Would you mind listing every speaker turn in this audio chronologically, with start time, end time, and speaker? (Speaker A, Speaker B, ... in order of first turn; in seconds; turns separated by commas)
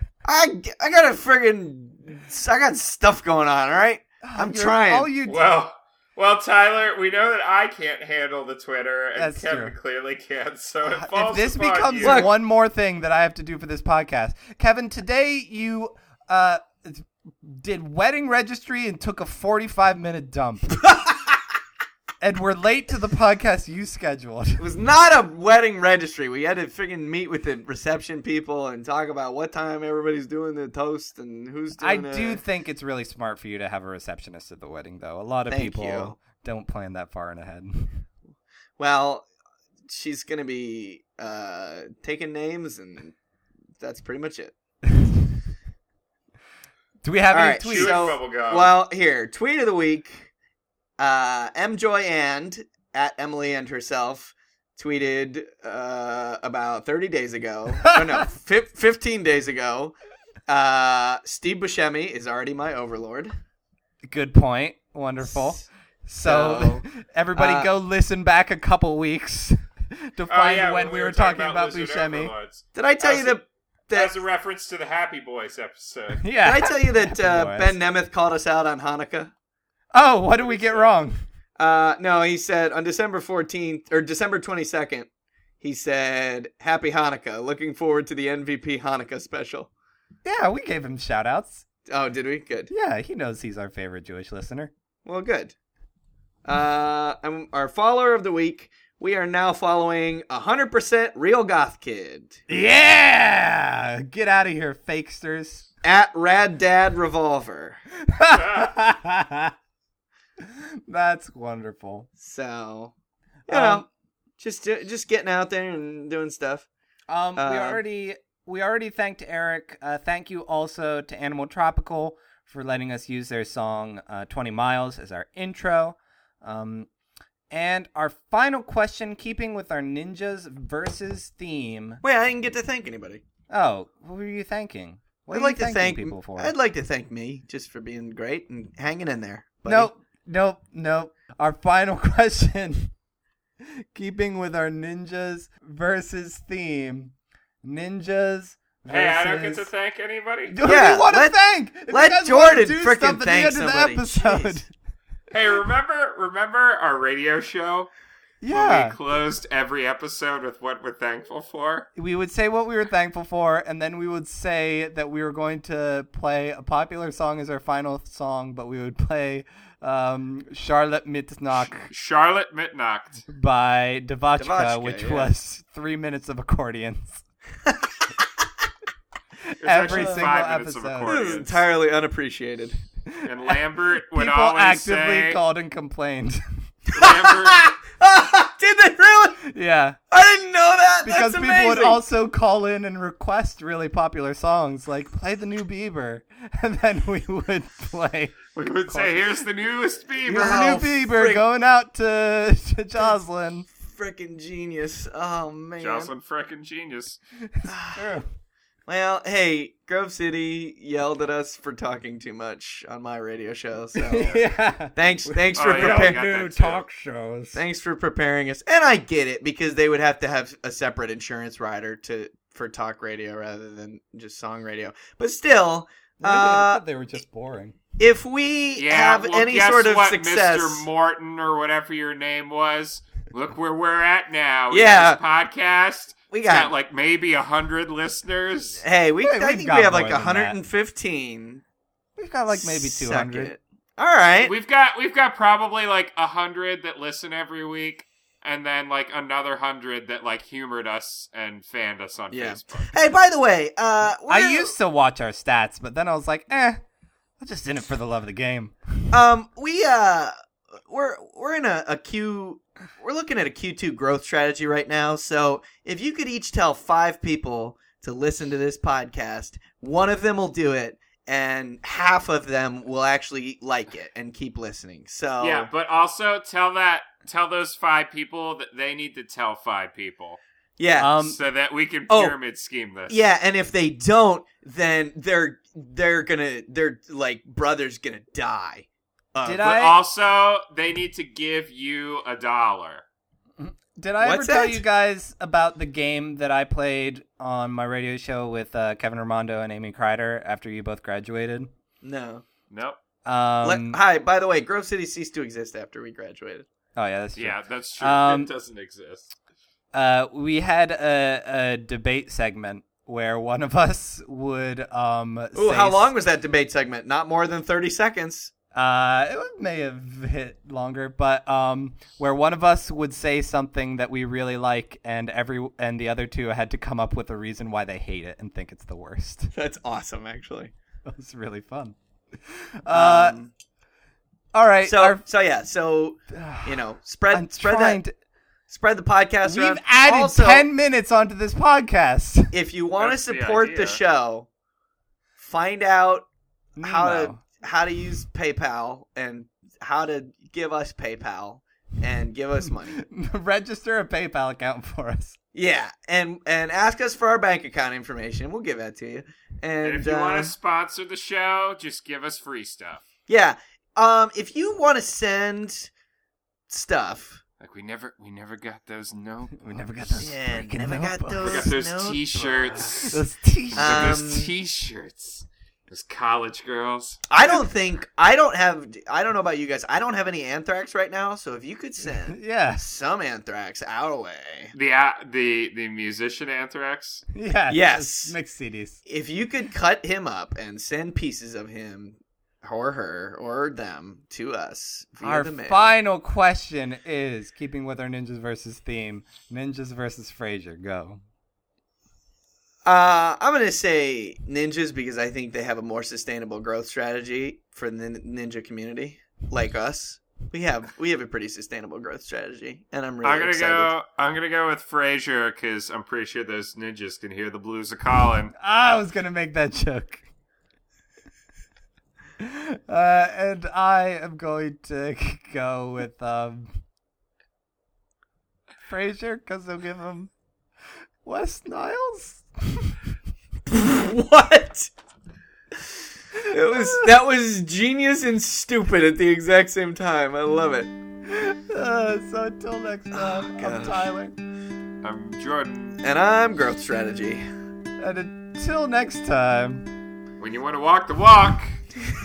Speaker A: 0.2-5.1, Speaker B: 4.2-5.4, Speaker C: 5.2-12.3, Speaker B: 9.2-9.7, Speaker B: 10.8-20.8, Speaker A: 12.0-12.3, Speaker B: 22.2-24.6, Speaker A: 24.6-32.4, Speaker B: 31.8-38.0, Speaker A: 35.5-36.2, Speaker A: 38.8-39.3, Speaker A: 39.9-43.1, Speaker A: 43.8-44.5, Speaker B: 47.0-48.1, Speaker A: 47.3-50.3, Speaker C: 47.6-48.7, Speaker A: 51.0-59.9, Speaker B: 57.8-58.2, Speaker A: 60.5-63.3, Speaker B: 64.0-72.3, Speaker A: 65.2-65.7, Speaker A: 66.2-66.8, Speaker A: 67.3-67.7, Speaker C: 70.3-76.2, Speaker A: 72.7-74.2, Speaker B: 76.2-77.8, Speaker A: 76.4-79.3, Speaker B: 79.9-81.2, Speaker C: 80.4-80.9, Speaker A: 81.6-85.1, Speaker A: 85.6-89.7, Speaker B: 90.2-91.6, Speaker A: 91.9-92.7, Speaker B: 92.7-94.7, Speaker A: 95.0-95.5, Speaker A: 96.4-102.4, Speaker B: 102.5-105.7, Speaker A: 105.8-107.8, Speaker B: 108.0-109.5, Speaker B: 110.4-112.1, Speaker A: 112.2-112.9, Speaker A: 113.5-113.8, Speaker B: 113.5-113.8, Speaker A: 114.4-116.7, Speaker B: 117.1-126.9, Speaker A: 117.3-117.8, Speaker B: 127.5-132.0, Speaker A: 132.0-133.2, Speaker B: 133.5-136.5, Speaker A: 135.3-139.9, Speaker B: 139.7-142.9, Speaker B: 143.6-149.7, Speaker C: 148.9-150.6, Speaker B: 150.5-154.7, Speaker A: 150.6-151.3, Speaker A: 151.9-154.7, Speaker C: 155.3-157.9, Speaker B: 158.4-159.0, Speaker C: 158.5-161.9, Speaker B: 161.9-171.9, Speaker C: 171.7-173.2, Speaker B: 173.3-177.2, Speaker A: 174.4-175.3, Speaker B: 179.5-181.2, Speaker C: 179.6-181.5, Speaker A: 179.9-180.3, Speaker A: 181.0-182.8, Speaker B: 183.1-183.6, Speaker C: 183.2-185.4, Speaker B: 184.1-186.4, Speaker C: 186.9-187.7, Speaker A: 186.9-189.4, Speaker B: 189.4-190.0, Speaker A: 190.1-192.0, Speaker B: 191.0-199.2, Speaker C: 198.5-200.8, Speaker B: 200.2-203.7, Speaker A: 200.3-201.4, Speaker A: 203.7-206.1, Speaker C: 205.8-207.2, Speaker A: 207.6-208.1, Speaker B: 207.9-208.2, Speaker A: 208.9-216.2, Speaker B: 213.9-217.6, Speaker C: 215.6-216.8, Speaker A: 217.5-226.8, Speaker B: 226.2-227.8, Speaker A: 228.0-230.8, Speaker C: 228.8-238.8, Speaker A: 234.7-235.2, Speaker A: 236.3-236.7, Speaker A: 238.8-241.6, Speaker B: 239.2-240.6, Speaker B: 242.2-243.5, Speaker A: 242.5-244.5, Speaker C: 244.4-252.9, Speaker A: 252.3-254.7, Speaker B: 254.3-256.8, Speaker B: 257.4-258.8, Speaker A: 259.1-260.3, Speaker A: 260.9-275.7, Speaker C: 275.4-280.4, Speaker A: 280.8-281.1, Speaker B: 281.0-281.4, Speaker C: 281.2-283.2, Speaker A: 282.1-282.4, Speaker A: 283.1-289.7, Speaker B: 289.4-290.0, Speaker C: 289.6-293.0, Speaker B: 293.6-301.7, Speaker A: 294.2-294.8, Speaker A: 302.0-302.4, Speaker C: 302.7-303.0, Speaker B: 303.2-304.0, Speaker A: 303.6-306.6, Speaker B: 306.9-308.5, Speaker C: 307.4-309.3, Speaker B: 309.9-316.1, Speaker A: 315.5-318.5, Speaker B: 318.7-329.5, Speaker A: 329.5-330.7, Speaker B: 331.1-333.4, Speaker A: 332.9-333.5, Speaker B: 334.5-335.2, Speaker A: 334.8-338.0, Speaker B: 336.3-338.1, Speaker A: 338.7-340.7, Speaker B: 339.4-342.5, Speaker A: 342.5-344.5, Speaker C: 343.0-344.0, Speaker A: 345.4-346.3, Speaker B: 346.8-347.4, Speaker A: 346.8-353.0, Speaker B: 352.9-355.4, Speaker A: 355.5-360.5, Speaker C: 359.8-363.0, Speaker A: 363.3-365.9, Speaker A: 366.7-367.4, Speaker C: 367.6-370.2, Speaker B: 369.6-371.7, Speaker A: 370.2-373.2, Speaker C: 371.4-373.2, Speaker B: 373.1-374.2, Speaker C: 373.7-377.2, Speaker A: 373.7-374.5, Speaker A: 377.3-384.7, Speaker B: 382.3-382.8, Speaker C: 384.7-387.2, Speaker B: 387.3-389.0, Speaker A: 387.7-388.4, Speaker A: 389.0-395.9, Speaker B: 395.2-401.2, Speaker A: 402.8-413.9, Speaker C: 413.2-418.5, Speaker B: 418.6-420.2, Speaker B: 422.4-426.8, Speaker B: 428.9-430.3, Speaker B: 431.2-432.9, Speaker A: 433.7-434.9, Speaker A: 436.4-440.9, Speaker B: 436.6-437.1, Speaker B: 441.3-444.3, Speaker A: 443.1-444.1, Speaker C: 445.0-446.0, Speaker A: 446.0-447.4, Speaker B: 448.0-449.9, Speaker C: 450.4-451.8